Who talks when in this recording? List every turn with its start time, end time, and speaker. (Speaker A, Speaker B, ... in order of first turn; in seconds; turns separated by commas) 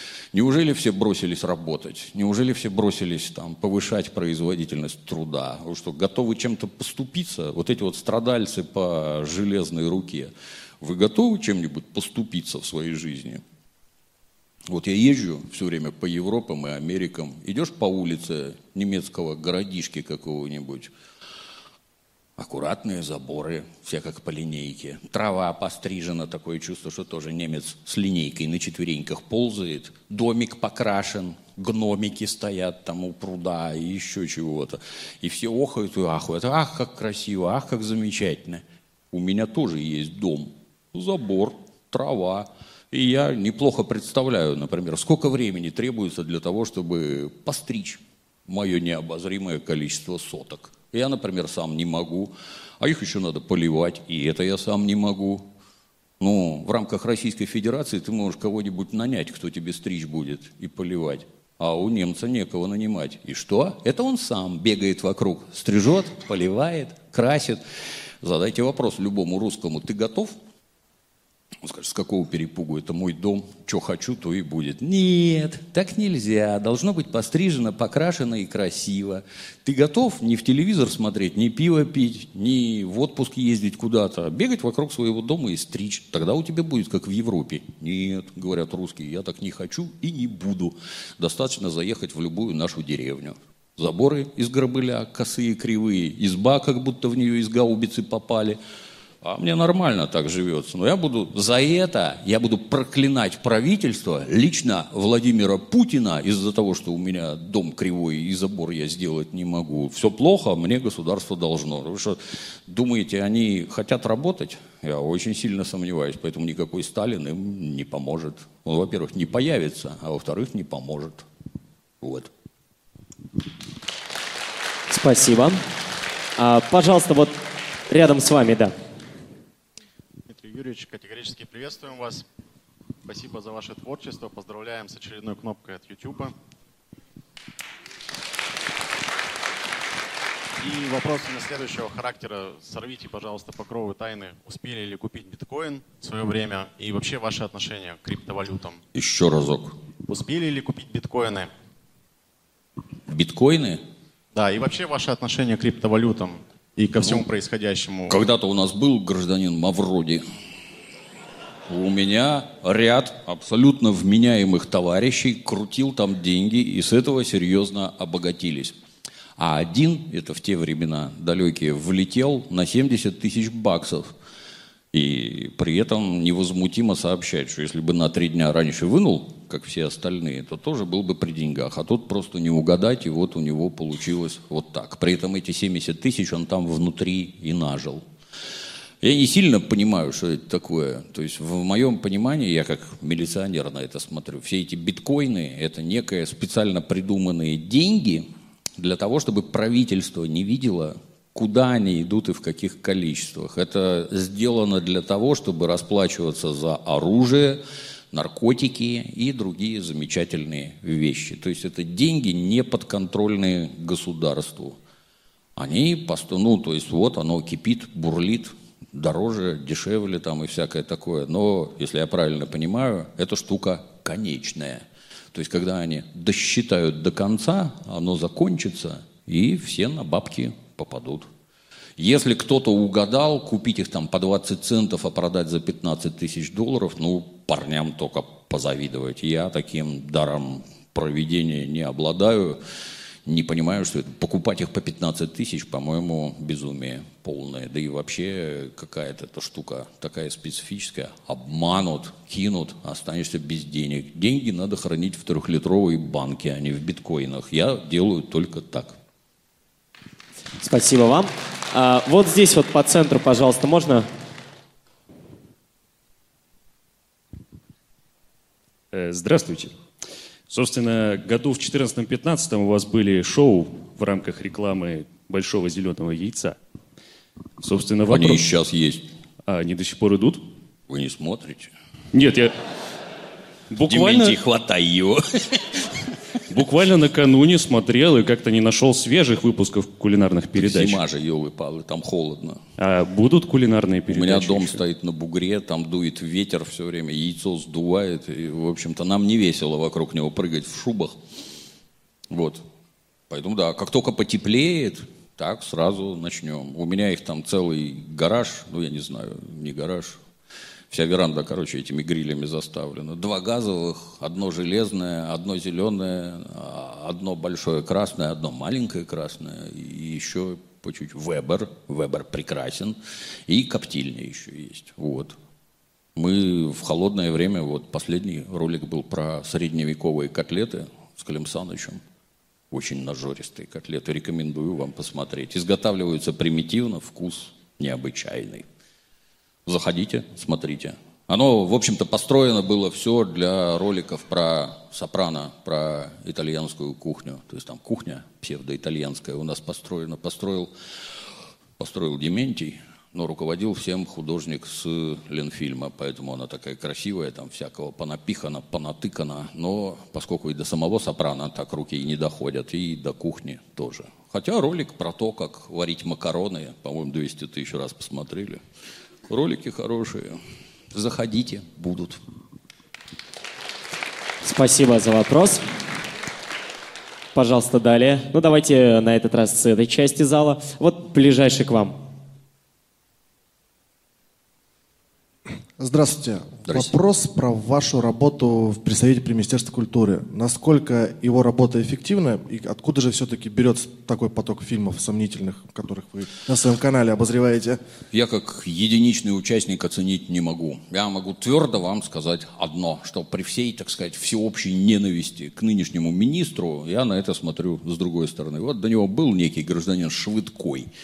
Speaker A: 0.3-13.4, Speaker A: 14.7-20.9, Speaker A: 22.4-55.5, Speaker A: 56.2-67.6, Speaker A: 68.2-70.3, Speaker A: 71.6-98.6, Speaker A: 99.2-121.2, Speaker A: 122.0-122.3, Speaker B: 124.9-125.6, Speaker B: 126.4-127.4, Speaker B: 127.9-128.7, Speaker C: 130.3-132.2, Speaker C: 133.0-136.3, Speaker C: 140.6-148.8, Speaker A: 148.9-149.7, Speaker C: 150.1-151.5, Speaker A: 153.1-153.8, Speaker C: 154.3-158.2, Speaker A: 157.0-157.2, Speaker A: 158.1-160.2, Speaker A: 161.7-168.8, Speaker A: 169.4-174.1, Speaker A: 174.9-188.0, Speaker A: 189.0-214.8, Speaker A: 215.6-231.3, Speaker A: 232.0-242.6, Speaker A: 243.2-259.0, Speaker B: 260.6-264.1, Speaker D: 268.9-269.7, Speaker D: 270.5-276.6, Speaker D: 277.6-278.5, Speaker A: 278.1-279.1, Speaker D: 279.5-280.4, Speaker A: 280.9-281.7, Speaker D: 282.1-282.5, Speaker D: 283.7-284.4, Speaker A: 283.8-285.7, Speaker D: 286.5-291.0, Speaker A: 290.5-292.6, Speaker D: 292.8-294.8, Speaker A: 294.1-301.1, Speaker A: 302.3-302.6, Speaker A: 303.3-310.2, Speaker A: 310.9-322.9, Speaker A: 323.5-325.3, Speaker A: 326.1-332.0, Speaker A: 332.7-338.7, Speaker A: 339.6-350.7, Speaker A: 351.8-368.6, Speaker A: 369.3-370.4, Speaker A: 370.9-372.2, Speaker B: 374.4-375.6, Speaker B: 377.3-382.0, Speaker E: 385.7-397.8, Speaker A: 398.1-410.9